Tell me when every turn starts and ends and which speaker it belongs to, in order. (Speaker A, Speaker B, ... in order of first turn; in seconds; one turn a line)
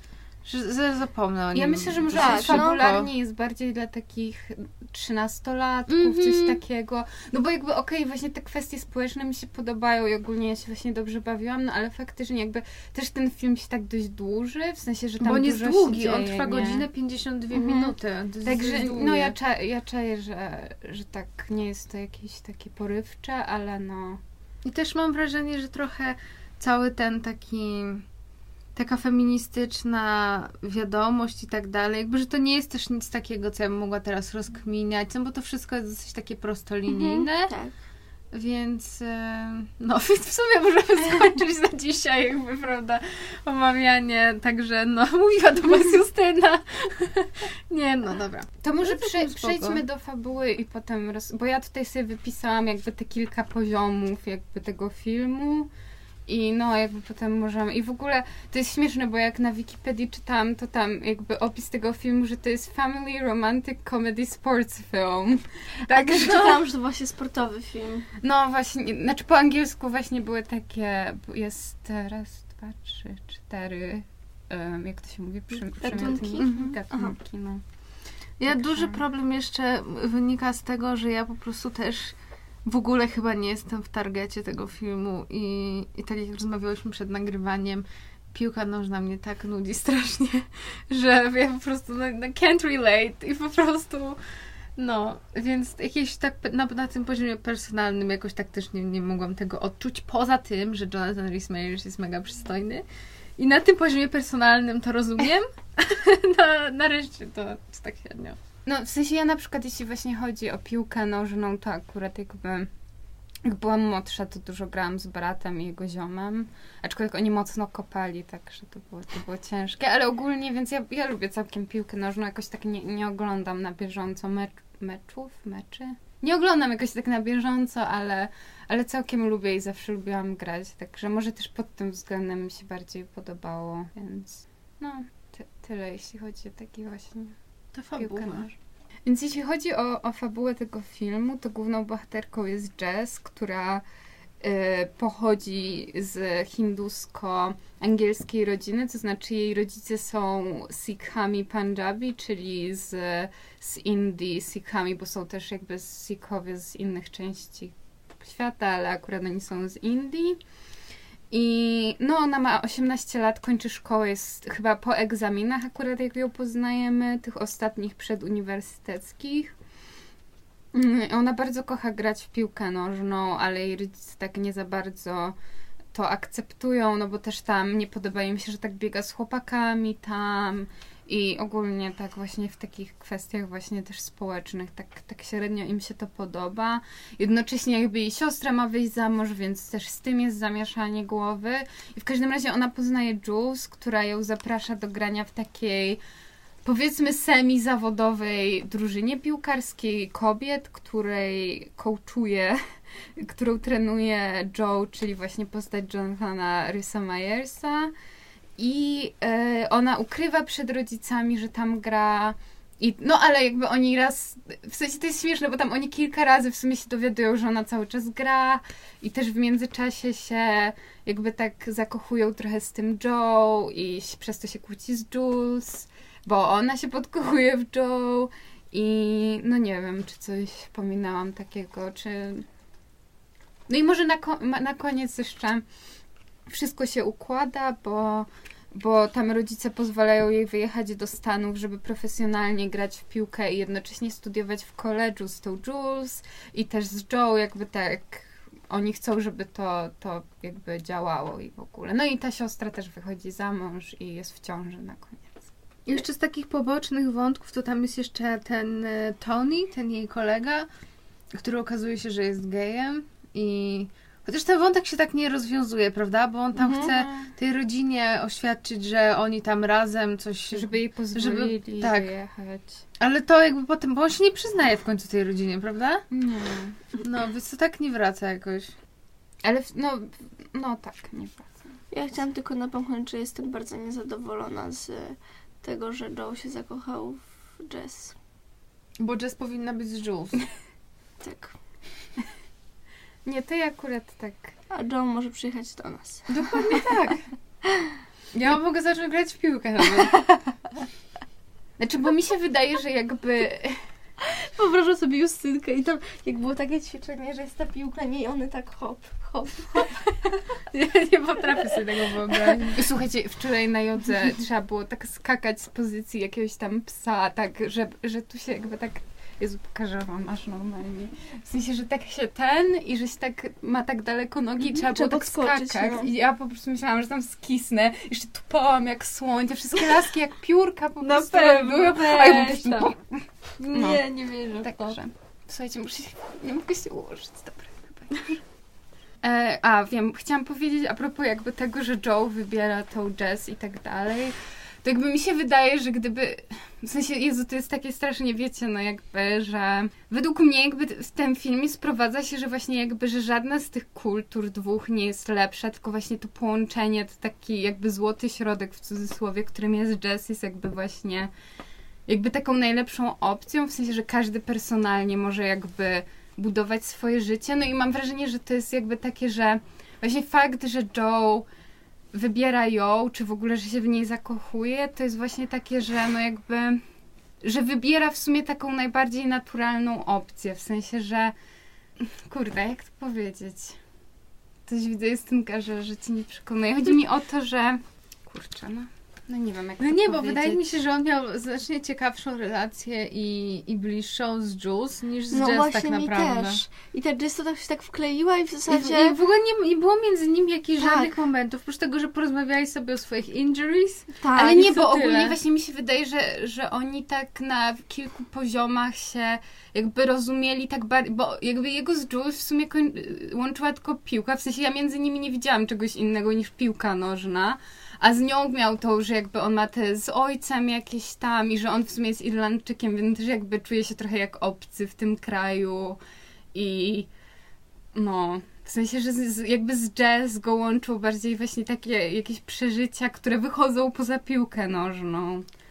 Speaker A: 0.4-3.1
Speaker B: 1.5-16.9
Speaker C: 2.2-2.8
Speaker A: 5.9-6.6
Speaker A: 15.2-19.4
Speaker B: 17.5-17.9
Speaker B: 18.4-24.2
Speaker A: 24.6-28.0
Speaker A: 28.7-37.5
Speaker C: 36.9-37.7
Speaker A: 38.3-49.8
Speaker B: 48.6-55.7
Speaker B: 56.3-66.6
Speaker C: 65.9-68.1
Speaker B: 68.2-77.6
Speaker C: 75.8-77.1
Speaker A: 78.4-94.2
Speaker B: 78.5-79.0
Speaker A: 94.8-102.8
Speaker A: 103.4-108.4
Speaker B: 108.7-112.7
Speaker B: 113.4-137.3
Speaker A: 137.7-138.5
Speaker B: 137.9-138.5
Speaker B: 139.1-143.8
Speaker B: 144.4-160.4
Speaker B: 161.3-169.5
Speaker B: 170.7-175.3
Speaker B: 175.9-196.0
Speaker B: 196.6-202.6
Speaker B: 203.2-207.9
Speaker B: 208.6-232.4
Speaker B: 233.7-235.6
Speaker B: 236.5-255.4
Speaker A: 255.9-260.7
Speaker A: 261.3-272.1
Speaker C: 266.6-266.9
Speaker B: 266.7-267.3
Speaker B: 270.5-272.8
Speaker A: 273.0-276.0
Speaker B: 276.1-276.8
Speaker A: 277.0-278.7
Speaker B: 279.4-281.5
Speaker C: 281.9-288.1
Speaker A: 289.0-290.4
Speaker C: 291.2-291.5
Speaker B: 293.2-294.5
Speaker C: 294.7-296.3
Speaker A: 296.3-297.2
Speaker B: 296.6-296.9
Speaker A: 298.3-300.2
Speaker B: 301.8-303.8
Speaker C: 304.2-309.9
Speaker A: 310.7-312.8
Speaker B: 312.5-334.1
Speaker C: 324.6-326.1
Speaker A: 331.0-332.9
Speaker A: 333.6-335.0
Speaker B: 334.6-338.4
Speaker B: 339.2-361.3
Speaker B: 362.1-371.5
Speaker B: 372.1-376.8
Speaker B: 377.4-381.3
Speaker B: 382.0-383.8
Speaker B: 384.7-390.8
Speaker A: 389.8-396.6
Speaker C: 395.3-399.1
Speaker A: 398.7-405.3
Speaker C: 400.8-401.1
Speaker C: 404.2-405.3
Speaker B: 404.3-426.0
Speaker B: 426.5-427.1
Speaker B: 427.9-435.4